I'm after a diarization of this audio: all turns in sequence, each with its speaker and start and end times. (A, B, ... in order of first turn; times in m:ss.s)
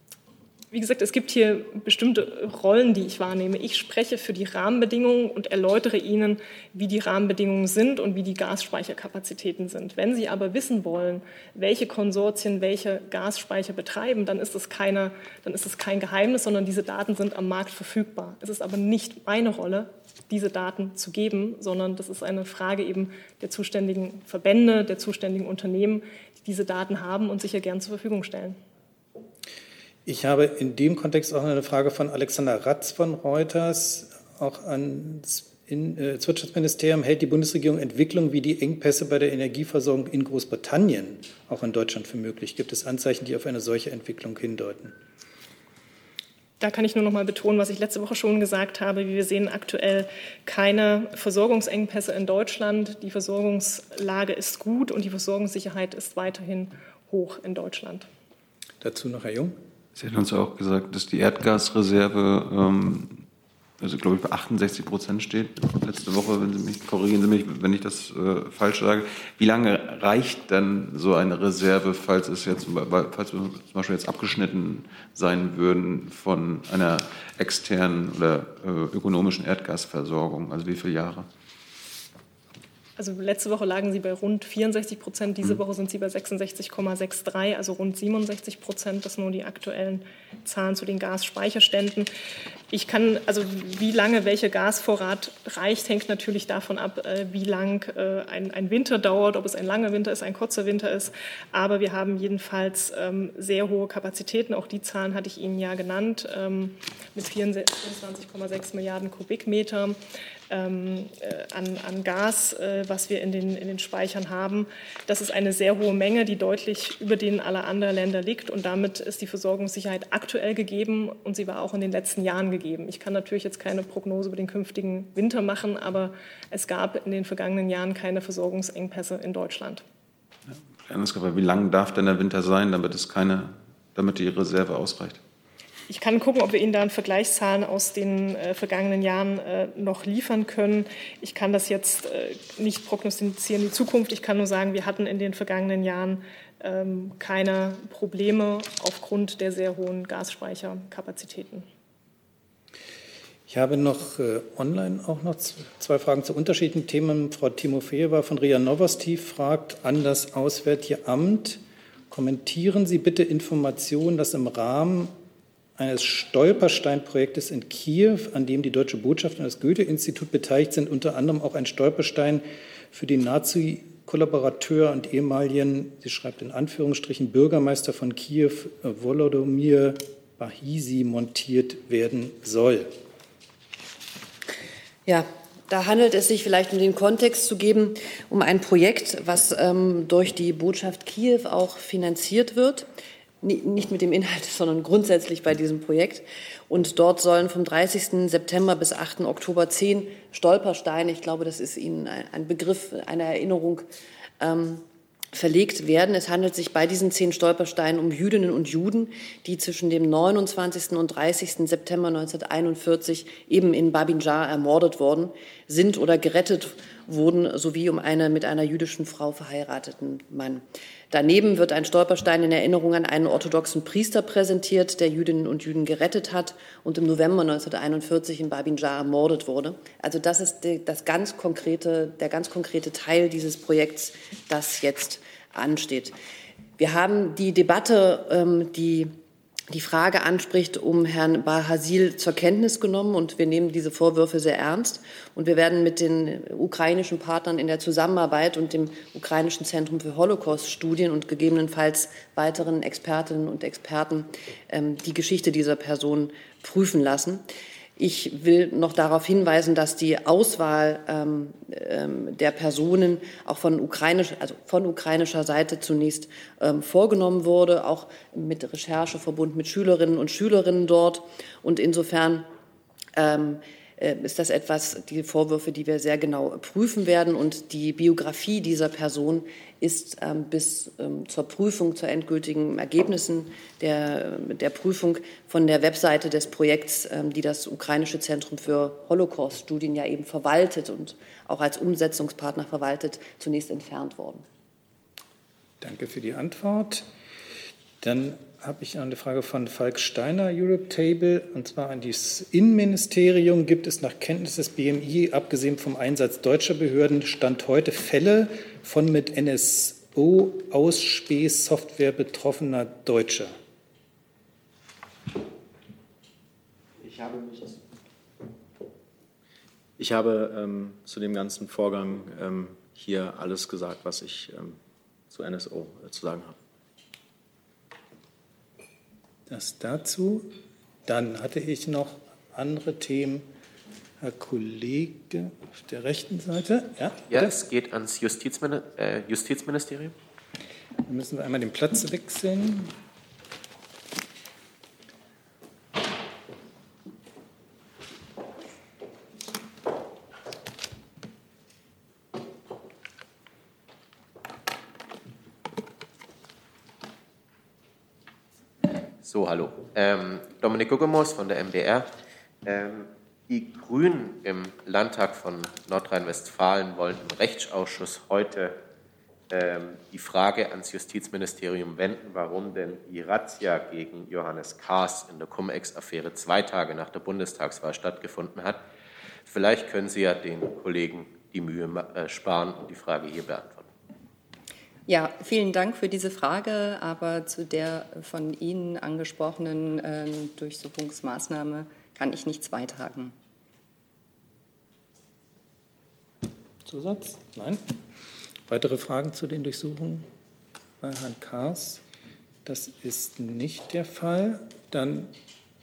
0:00.7-0:28.6 A
0:30.1-0:44.9 B
0:46.6-0:58.1 A
0:58.8-0:59.6 B
1:00.0-1:03.3 C
1:03.8-1:21.3 C
1:23.0-1:32.1 A
1:32.7-2:09.8 A
2:10.8-2:15.2 C
2:15.9-2:31.7 A
2:33.5-2:45.1 B
2:45.8-3:02.9 B
3:05.1-3:12.9 D
3:13.4-3:23.9 D
3:24.4-3:56.2 D
3:56.8-3:59.1 D
3:59.7-4:17.4 D
4:18.0-4:32.5 D
4:33.2-4:54.4 D
4:55.8-4:57.1 B
4:58.0-5:13.6 B
5:17.0-5:17.8 E
5:20.0-5:24.8 E
5:25.3-5:26.6 E
5:29.5-5:30.5 B
5:31.1-5:33.5 B
5:34.2-5:37.5 B
5:37.3-5:40.2 F
5:41.1-5:42.9 B
5:59.2-6:02.1 F
6:02.6-6:08.8 F
6:09.5-6:18.8 F
6:19.5-6:23.9 F
6:25.1-6:33.4 G
6:36.9-6:37.8 B
6:38.7-6:40.3 B
6:41.0-6:42.0 B
6:42.6-6:45.3 B